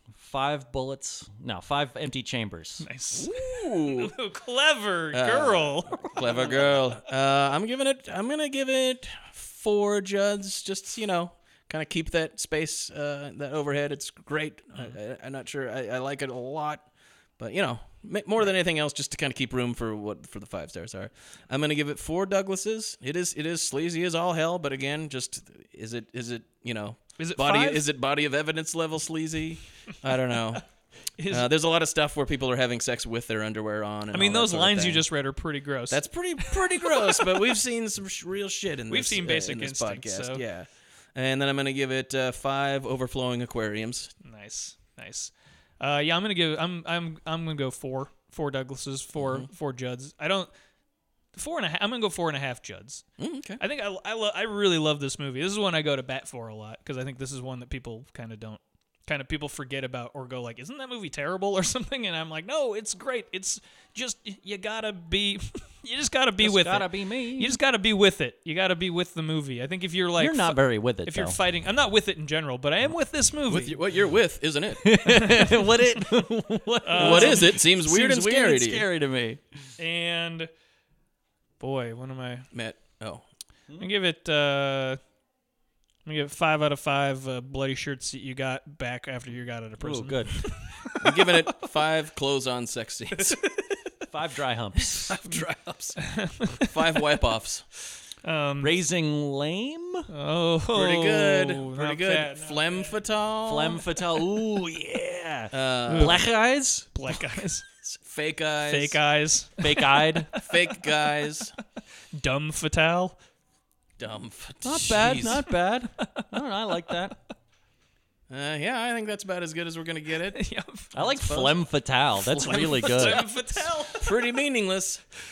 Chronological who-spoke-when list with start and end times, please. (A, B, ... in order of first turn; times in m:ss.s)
0:00.2-0:02.8 A
0:02.8-0:06.7 B
0:03.1-0:04.1 C
0:05.1-0:16.8 C
0:17.4-0:30.6 C
0:27.2-0:27.8 B
0:31.2-0:31.5 B
0:31.3-0:35.1 C
0:34.1-0:37.3 B
0:35.9-0:44.1 C
0:38.9-0:40.4 B
0:44.2-0:50.5 B
0:49.2-0:49.5 C
0:51.3-0:53.0 B
0:53.2-0:53.6 C
0:53.6-1:13.8 B
1:06.4-1:07.6 A
1:10.2-1:11.4 A
1:13.5-1:15.0 C
1:14.8-1:19.6 A
1:16.8-1:17.5 B
1:17.0-1:18.9 C
1:19.8-1:20.5 B
1:21.6-1:22.4 B
1:22.5-1:23.2 C
1:23.8-1:25.0 B
1:26.0-1:31.3 B
1:29.8-1:30.7 A
1:31.0-1:33.4 C
1:33.2-1:33.6 B
1:34.1-1:35.1 A
1:35.0-1:36.0 C
1:36.0-1:36.7 B
1:36.6-1:37.6 C
1:38.2-1:38.8 B
1:38.6-1:40.1 A
1:40.1-1:42.9 B
1:40.7-1:43.8 C
1:43.4-1:46.9 A
1:45.5-1:46.2 C
1:46.9-1:47.6 B
1:47.8-1:49.0 C
1:48.7-1:50.5 B
1:49.6-1:50.3 A
1:50.4-1:51.6 C
1:52.2-1:53.2 B
1:54.0-1:55.4 C
1:54.6-1:57.2 A
1:58.3-2:00.4 C
2:00.3-2:00.9 B
2:00.9-2:03.2 A
2:01.0-2:01.7 C
2:02.3-2:04.0 B
2:02.4-2:05.0 C